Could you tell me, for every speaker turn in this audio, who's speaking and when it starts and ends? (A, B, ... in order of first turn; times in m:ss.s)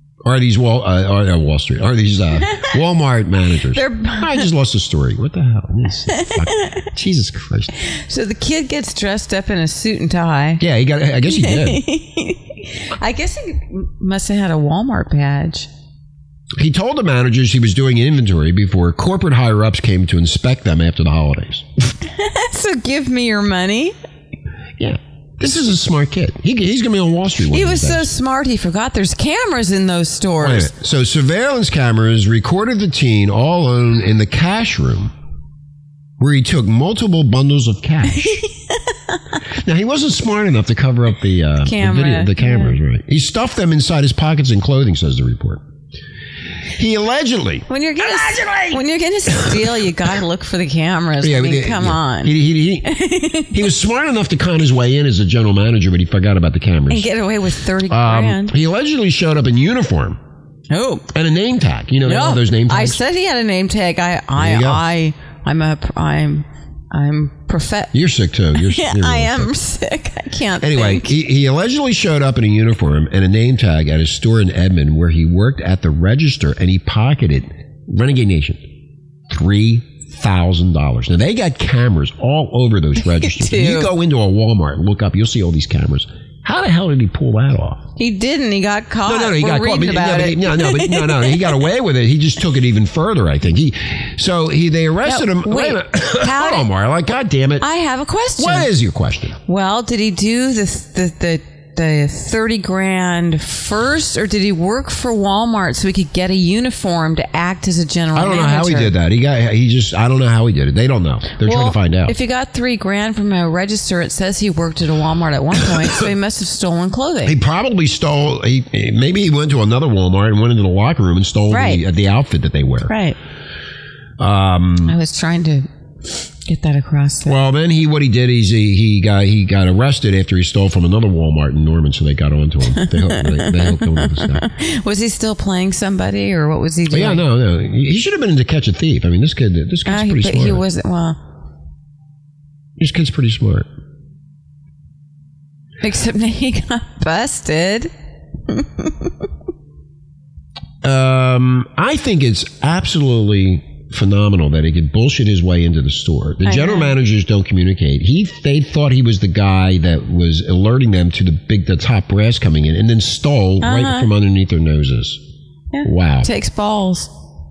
0:00.2-0:07.7 A
0:03.7-0:04.4 B
0:07.8-0:10.6 B
0:10.6-0:11.8 A
0:11.3-0:15.7 B
0:16.6-0:21.6 A
0:22.0-0:23.9 B
0:24.8-0:28.1 A
0:27.5-0:30.7 B
0:30.4-0:35.1 A
0:36.2-0:38.4 A
0:38.2-0:39.2 B
0:39.6-0:45.6 A
0:41.6-0:42.8 B
0:46.7-0:48.8 A
0:47.7-0:53.6 B
0:51.2-0:52.9 A
0:53.5-0:57.1 A
0:56.9-0:58.5 B
0:57.9-1:00.2 A
1:00.7-1:01.0 B
1:01.1-1:03.0 A
1:02.0-1:07.9 B
1:04.4-1:04.8 A
1:07.9-1:09.5 A
1:08.5-1:11.1 B
1:10.6-1:18.6 A
1:19.3-1:27.8 A
1:23.0-1:23.9 B
1:28.0-1:31.6 B
1:29.0-1:37.7 A
1:35.0-1:36.7 B
1:37.6-1:38.7 B
1:38.4-1:39.4 A
1:39.4-1:48.9 B
1:48.1-1:52.1 A
1:51.4-1:57.3 B
1:57.2-2:02.9 A
2:01.5-2:01.8 B
2:02.9-2:03.2 B
2:04.2-2:05.0 A
2:04.8-2:05.7 B
2:06.4-2:07.4 B
2:07.2-2:14.4 A
2:12.7-2:17.2 B
2:16.9-2:20.6 A
2:19.8-2:21.2 B
2:22.8-2:23.7 A
2:25.8-2:27.9 B
2:28.5-2:29.1 B
2:30.8-2:45.2 A
2:36.4-2:36.9 B
2:43.6-2:44.1 B
2:45.7-2:47.1 B
2:45.8-2:46.3 A